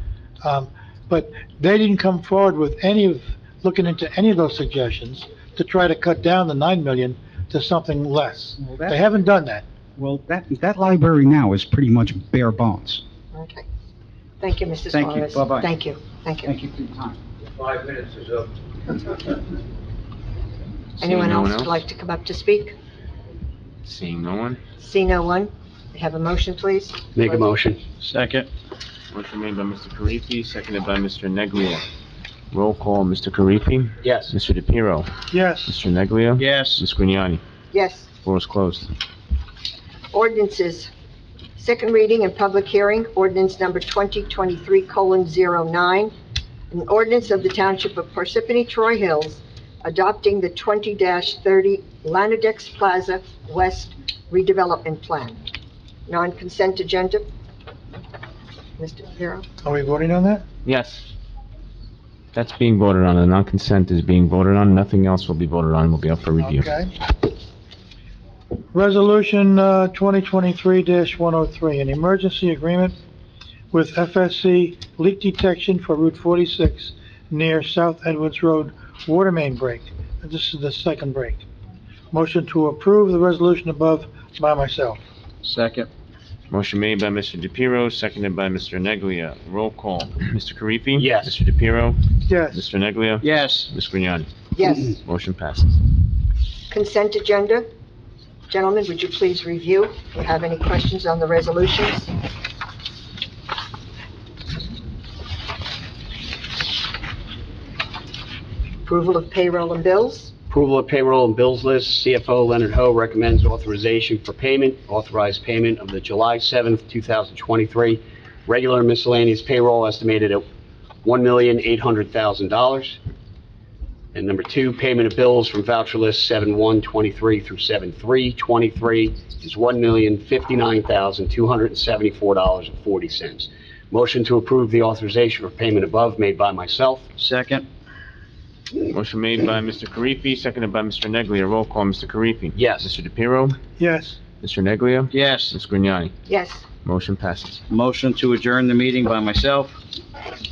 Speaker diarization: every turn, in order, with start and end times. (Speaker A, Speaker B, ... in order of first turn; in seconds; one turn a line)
Speaker A: 0.4-9.6
Speaker B: 8.6-9.0
Speaker B: 10.0-13.0
Speaker C: 13.3-13.6
Speaker C: 14.4-16.5
Speaker B: 14.9-15.7
Speaker B: 16.4-17.2
Speaker D: 21.0-21.7
Speaker C: 21.0-22.7
Speaker D: 23.8-24.6
Speaker C: 24.8-27.5
Speaker E: 27.1-27.9
Speaker F: 27.9-28.5
Speaker D: 29.1-31.8
Speaker D: 32.5-35.1
Speaker E: 34.0-34.3
Speaker A: 35.3-35.7
Speaker D: 35.6-37.4
Speaker F: 36.4-36.8
Speaker C: 37.7-38.1
Speaker D: 38.2-38.9
Speaker C: 40.1-40.9
Speaker C: 41.5-46.1
Speaker C: 46.7-55.4
Speaker C: 56.1-57.2
Speaker C: 58.8-59.5
Speaker A: 59.6-60.4
Speaker D: 60.6-61.0
Speaker D: 62.3-66.7
Speaker A: 66.4-66.9
Speaker A: 68.7-73.0
Speaker A: 73.7-81.4
Speaker A: 82.1-85.0
Speaker F: 85.4-85.9
Speaker D: 86.5-94.3
Speaker E: 91.0-91.3
Speaker A: 92.3-92.6
Speaker F: 93.2-93.7
Speaker C: 94.5-94.9
Speaker D: 94.8-95.8
Speaker C: 96.7-97.7
Speaker C: 98.5-102.1
Speaker C: 108.8-110.3
Speaker E: 110.5-120.5
Speaker E: 121.0-123.0
Speaker E: 124.1-137.1
Speaker F: 137.2-137.7
Speaker D: 138.8-143.6
Speaker E: 142.5-142.9
Speaker A: 143.8-144.2
Speaker D: 144.4-146.1
Speaker F: 145.1-145.6
Speaker C: 146.3-146.6
Speaker D: 146.8-147.6
Speaker F: 147.7-149.8